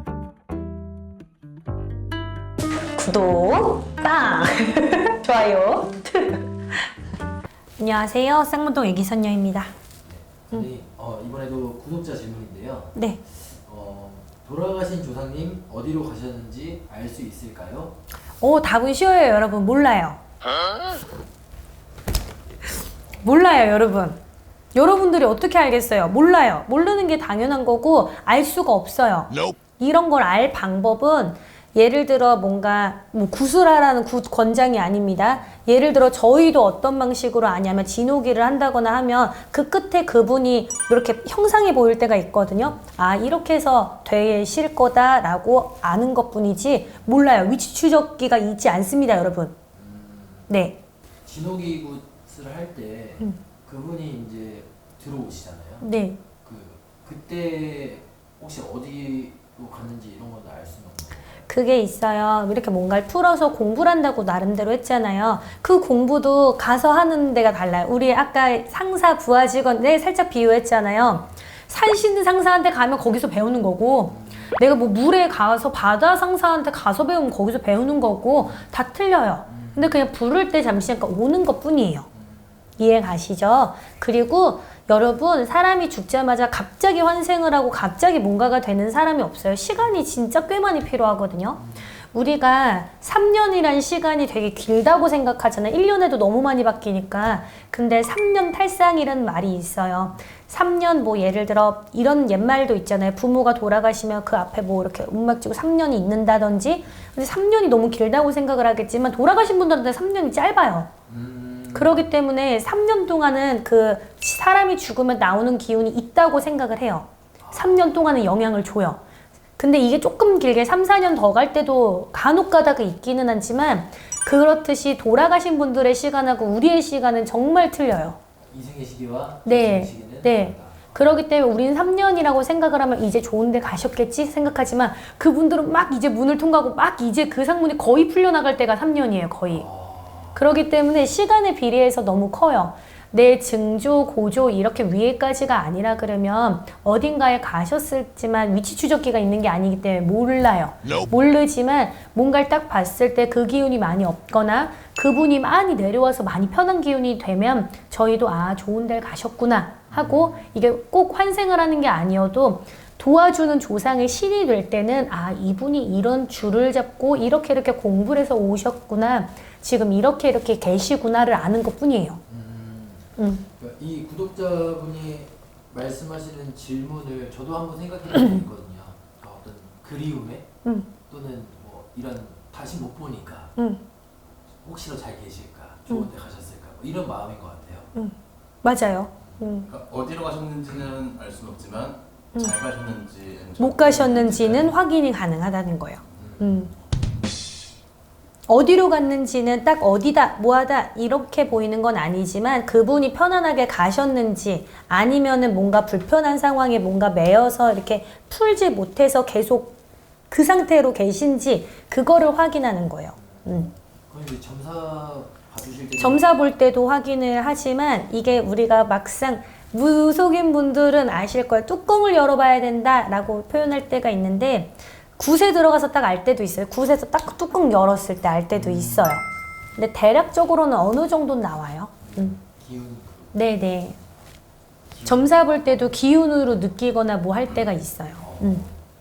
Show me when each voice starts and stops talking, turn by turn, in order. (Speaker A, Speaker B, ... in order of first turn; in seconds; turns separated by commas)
Speaker A: 2.9-6.9, Speaker A: 7.8-9.7, Speaker B: 10.0-18.0, Speaker A: 12.9-13.2, Speaker A: 18.4-20.2, Speaker A: 23.2-24.2, Speaker A: 24.7-49.6, Speaker B: 35.3-35.6, Speaker B: 49.7-50.6, Speaker A: 50.5-50.8, Speaker B: 51.2-55.9, Speaker A: 55.8-56.2, Speaker B: 56.4-61.5, Speaker A: 61.5-82.1, Speaker B: 74.1-74.5, Speaker B: 79.5-80.0, Speaker B: 82.1-82.7, Speaker A: 82.8-110.9, Speaker B: 91.6-92.0, Speaker B: 111.1-112.2, Speaker A: 111.7-119.0, Speaker B: 117.4-117.9, Speaker A: 119.6-128.2, Speaker B: 128.5-131.1, Speaker A: 129.4-139.7, Speaker B: 139.5-140.4, Speaker A: 140.3-172.2, Speaker B: 159.9-160.6, Speaker B: 172.3-180.5, Speaker A: 173.2-173.4, Speaker A: 180.6-180.9, Speaker B: 181.1-183.5, Speaker A: 183.6-183.8, Speaker B: 184.6-187.9, Speaker A: 187.9-189.7, Speaker B: 189.2-189.6, Speaker C: 189.7-194.7, Speaker A: 193.6-196.7, Speaker B: 196.2-196.7, Speaker A: 198.5-209.8, Speaker A: 210.3-213.7, Speaker B: 213.2-216.2, Speaker A: 216.0-229.2, Speaker B: 228.5-229.4, Speaker A: 229.8-232.3, Speaker B: 232.0-233.4, Speaker A: 233.3-234.0, Speaker B: 234.9-235.9, Speaker A: 235.1-238.6, Speaker B: 238.2-238.8